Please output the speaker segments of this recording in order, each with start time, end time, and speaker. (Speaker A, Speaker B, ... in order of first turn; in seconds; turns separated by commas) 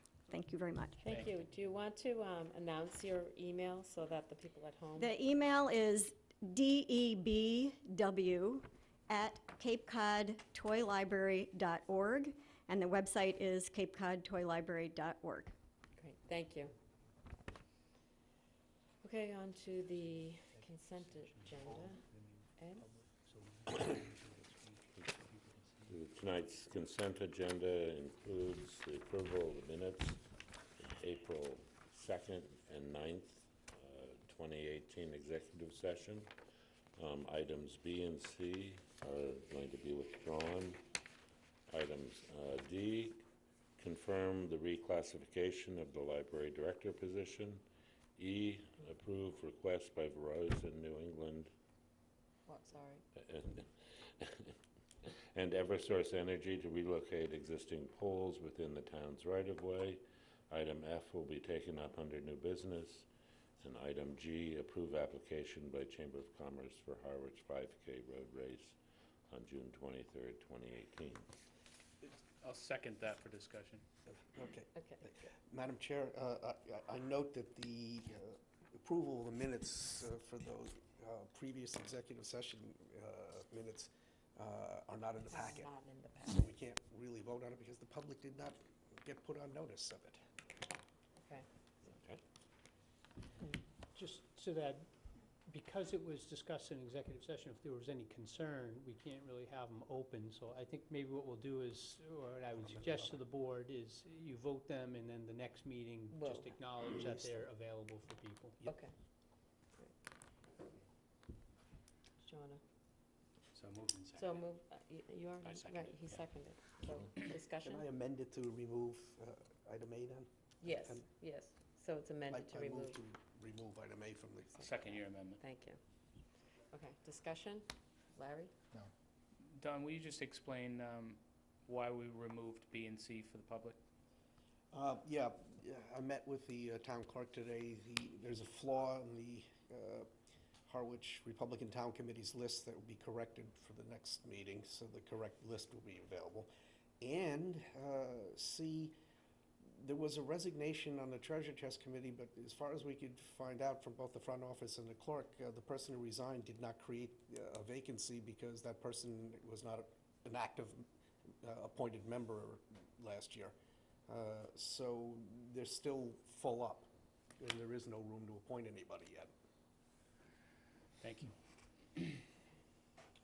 Speaker A: 0.3-1.0, Speaker B: 1.0-5.2, Speaker C: 1.1-1.3, Speaker A: 5.0-15.5, Speaker B: 15.9-16.7, Speaker B: 19.0-22.0, Speaker B: 22.6-22.9, Speaker C: 23.1-25.8, Speaker D: 25.9-30.2, Speaker D: 30.8-36.3, Speaker D: 37.0-40.8, Speaker D: 41.7-43.2, Speaker D: 43.8-47.6, Speaker D: 48.2-51.5, Speaker B: 52.5-53.0, Speaker D: 53.2-60.0, Speaker D: 60.5-63.1, Speaker D: 63.6-68.8, Speaker D: 69.3-71.3, Speaker C: 72.0-73.8, Speaker E: 74.1-85.7, Speaker B: 74.8-75.1, Speaker B: 85.3-86.5, Speaker E: 86.3-90.2, Speaker B: 91.2-91.5, Speaker D: 91.9-92.2, Speaker F: 94.0-94.9, Speaker F: 95.5-108.6, Speaker E: 102.5-103.2, Speaker B: 106.1-106.5, Speaker E: 107.0-107.5, Speaker B: 108.7-108.9, Speaker B: 112.2-112.6, Speaker C: 113.5-114.5, Speaker B: 114.2-117.8, Speaker C: 115.4-116.2, Speaker E: 117.6-121.0, Speaker B: 120.6-123.0, Speaker E: 122.3-124.8, Speaker C: 124.6-125.4, Speaker B: 125.4-125.8, Speaker B: 126.7-128.5, Speaker C: 129.5-133.8, Speaker E: 134.7-140.1, Speaker E: 140.7-149.0, Speaker E: 149.7-160.8, Speaker E: 161.4-163.6, Speaker E: 164.1-169.3, Speaker C: 171.0-171.3